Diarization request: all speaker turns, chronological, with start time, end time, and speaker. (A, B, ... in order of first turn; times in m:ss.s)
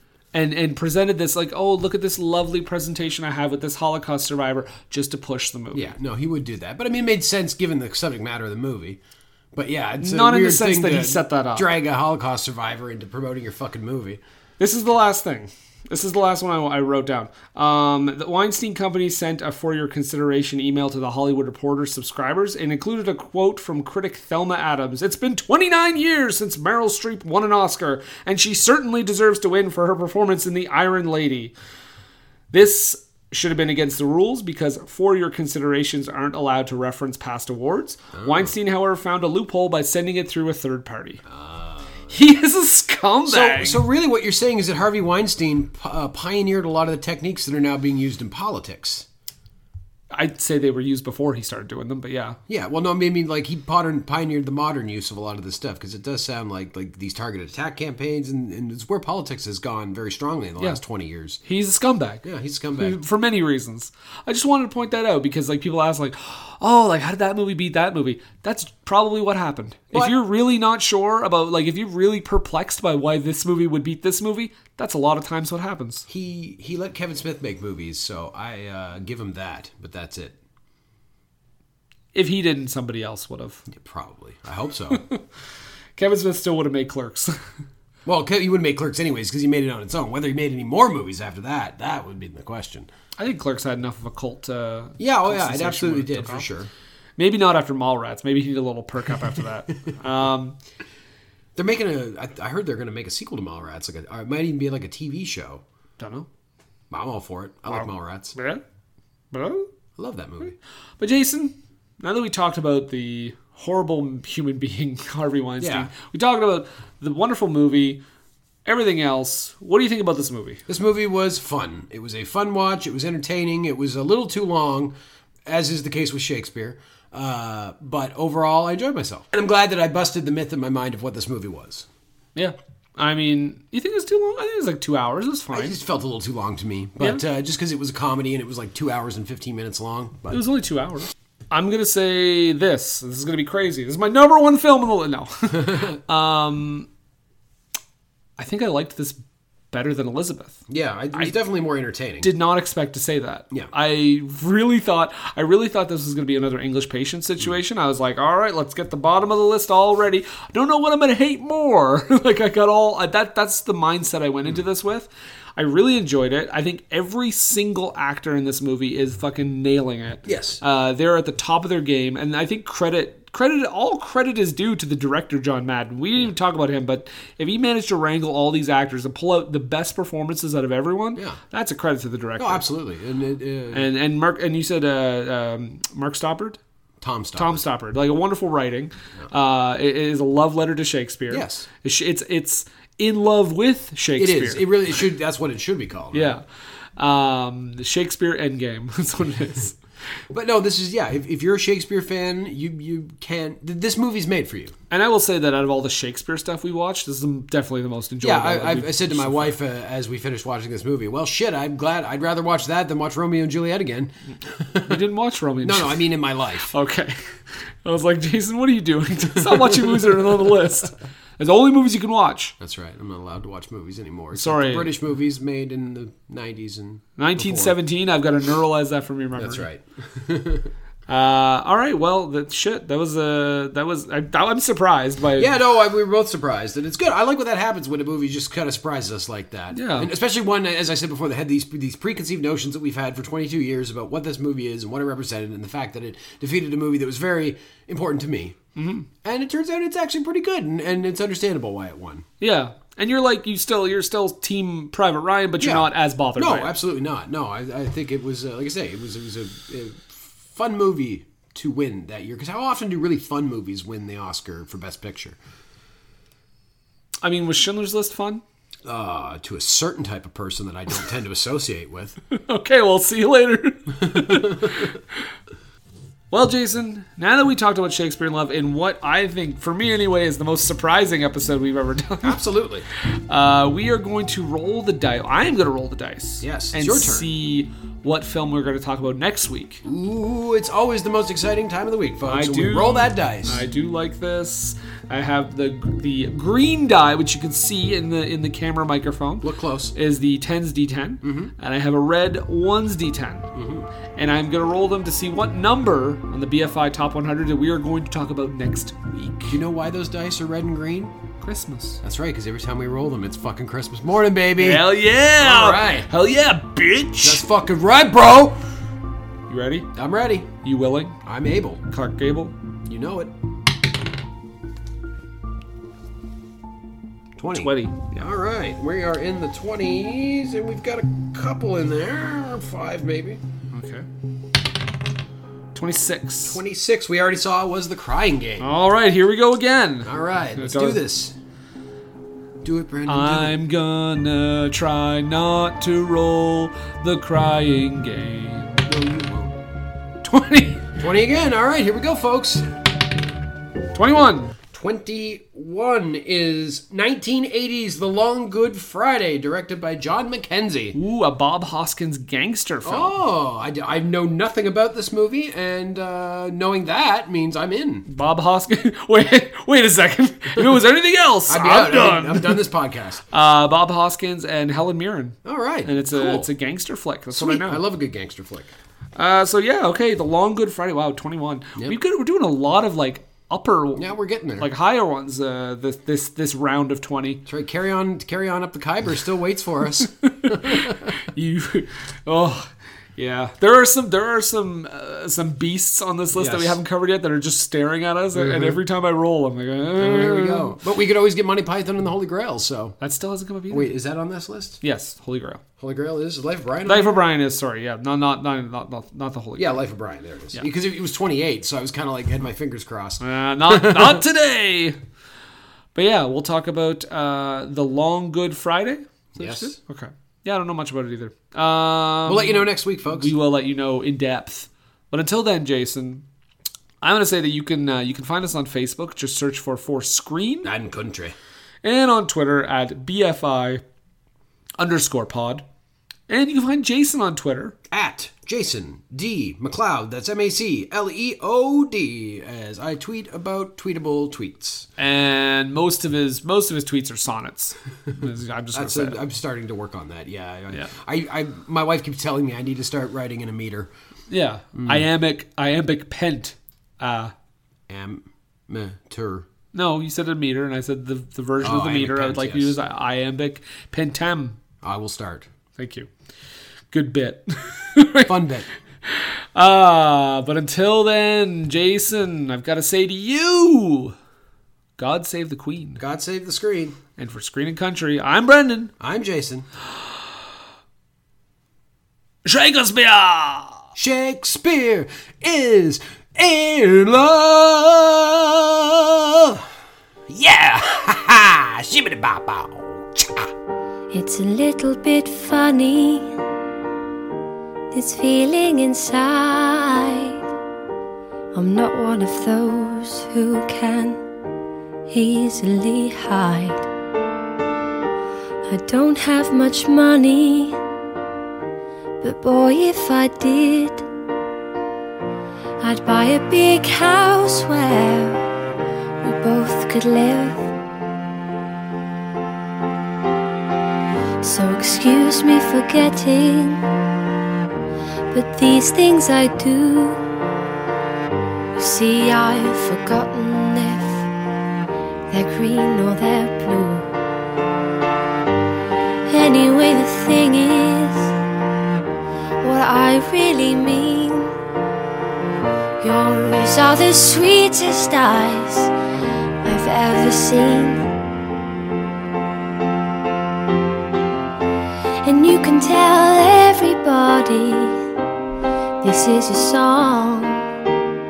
0:00.3-0:05.9 A
0:05.7-0:09.0 B
0:09.5-0:14.2 B
0:10.0-0:11.7 A
0:14.6-0:31.5 A
0:32.5-0:41.2 A
0:38.1-0:38.5 B
0:41.2-0:42.1 B
0:42.1-0:43.8 A
0:43.2-0:49.1 B
0:50.1-0:52.4 A
0:52.5-1:01.4 B
1:01.4-1:02.2 A
1:02.2-1:03.0 B
1:02.8-1:16.0 A
1:09.9-1:10.2 B
1:16.1-1:20.4 B
1:22.1-1:23.6 A
1:23.7-1:25.0 B
1:24.9-1:25.2 A
1:26.0-1:27.4 A
1:28.0-1:32.9 B
1:33.2-1:36.5 A
1:35.0-1:36.7 B
1:37.2-1:40.6 A
1:41.6-1:45.6 B
1:46.0-1:46.3 A
1:46.9-1:48.4 B
1:47.7-1:48.6 A
1:49.3-1:49.7 A
1:50.0-1:50.6 B
1:51.0-1:58.0 A
1:55.6-1:55.9 B
1:58.6-2:00.6 A
2:00.7-2:04.9 B
2:05.4-2:11.9 B
2:12.4-2:15.8 A
2:15.5-2:20.4 B
2:20.3-2:26.9 A
2:25.5-2:26.0 B
2:28.4-2:30.6 A
2:30.7-2:32.3 B
2:32.2-3:02.6 A
2:50.2-2:50.6 B
3:02.4-3:03.9 B
3:03.7-3:06.6 A
3:07.0-3:07.6 B
3:07.4-3:14.7 A
3:11.3-3:11.7 B
3:14.2-3:16.3 B
3:16.1-3:16.4 A
3:17.0-3:19.7 A
3:20.3-3:24.7 B
3:24.9-3:29.6 A
3:28.2-3:35.0 B
3:34.9-3:36.0 A
3:35.6-3:36.7 B
3:36.7-3:42.5 A
3:39.4-3:40.5 B
3:42.6-3:47.8 B
3:44.3-3:44.9 A
3:47.2-3:49.6 A
3:49.4-3:50.7 B
3:51.1-3:55.5 A
3:55.4-4:08.6 B
3:59.7-4:00.1 A
4:08.8-4:09.1 A
4:09.2-4:12.2 B
4:12.4-4:16.7 A
4:15.6-4:25.4 B
4:27.2-4:28.4 A
4:28.8-4:32.2 B
4:32.3-4:34.9 A
4:34.0-4:34.9 B
4:36.3-4:42.4 A
4:42.2-4:42.8 B
4:43.3-4:49.8 A
4:46.4-4:47.3 B
4:49.8-4:53.6 B
4:52.2-5:03.5 A
4:59.4-4:59.9 B
5:01.2-5:01.5 B
5:03.5-5:03.9 B
5:04.2-5:09.6 A
5:09.5-5:11.1 B
5:11.4-5:12.0 A
5:12.0-5:16.1 B
5:14.6-5:17.4 A
5:17.2-5:18.6 B
5:19.5-5:19.9 A
5:19.9-5:20.5 B
5:20.6-5:21.2 A
5:21.2-5:21.8 B
5:21.9-5:22.5 A
5:22.8-5:23.3 B
5:27.4-5:33.4 B
5:27.5-5:28.3 A
5:33.7-5:34.0 A
5:35.7-5:36.6 A
5:36.4-5:38.7 B
5:38.6-5:41.0 A
5:40.0-5:41.3 B
5:42.6-5:43.6 B
5:43.1-5:48.7 A
5:48.8-5:49.6 B
5:50.2-5:50.9 A
5:51.0-5:52.6 B
5:53.9-5:54.6 A
5:54.7-6:01.0 B
6:00.9-6:03.2 A
6:02.8-6:08.0 B
6:08.1-6:12.6 A
6:11.5-6:13.2 B
6:13.3-6:17.8 A
6:15.4-6:16.5 B
6:17.3-6:18.7 B
6:19.2-6:27.4 A
6:24.0-6:24.7 B
6:27.4-6:31.1 B
6:30.3-6:40.8 A
6:36.3-6:36.8 B
6:38.3-6:38.8 B
6:40.0-6:43.0 B
6:43.0-6:43.9 A
6:43.7-6:44.8 B
6:44.8-6:45.6 A
6:45.8-6:47.2 B
6:46.8-6:49.8 A
6:49.6-6:54.2 B
6:53.2-6:55.0 A
6:55.9-7:06.2 A
6:59.3-6:59.8 B
7:02.2-7:03.3 B
7:07.0-7:10.7 A
7:10.6-7:11.4 B
7:11.8-7:13.8 A
7:14.8-7:15.6 A
7:16.3-7:17.7 A
7:17.9-7:24.9 B
7:25.0-7:29.2 A
7:28.7-7:33.9 B
7:34.3-7:37.3 A
7:34.8-7:35.0 B
7:37.9-7:39.5 B
7:39.7-7:44.6 A
7:41.6-7:42.8 B
7:44.8-7:45.5 B
7:45.8-7:46.1 A
7:46.9-7:48.3 A
7:48.2-7:48.7 B
7:49.1-7:54.1 A
7:55.0-7:56.0 A
7:56.0-7:57.0 B
7:57.2-7:58.9 A
7:59.0-7:59.7 B
8:02.4-8:03.8 A
8:04.0-8:09.6 B
8:10.3-8:13.5 B
8:14.1-8:16.4 C
8:17.9-8:20.4 C
8:21.5-8:24.2 C
8:25.1-8:26.9 C
8:28.7-8:30.8 C
8:32.2-8:34.0 C
8:35.8-8:38.4 C
8:39.2-8:40.7 C
8:44.4-8:46.8 C
8:48.3-8:50.2 C
8:51.8-8:54.3 C
8:55.3-8:57.1 C
8:59.3-9:01.3 C
9:02.6-9:04.5 C
9:06.0-9:08.9 C
9:09.6-9:11.0 C
9:15.2-9:18.0 C
9:19.0-9:20.6 C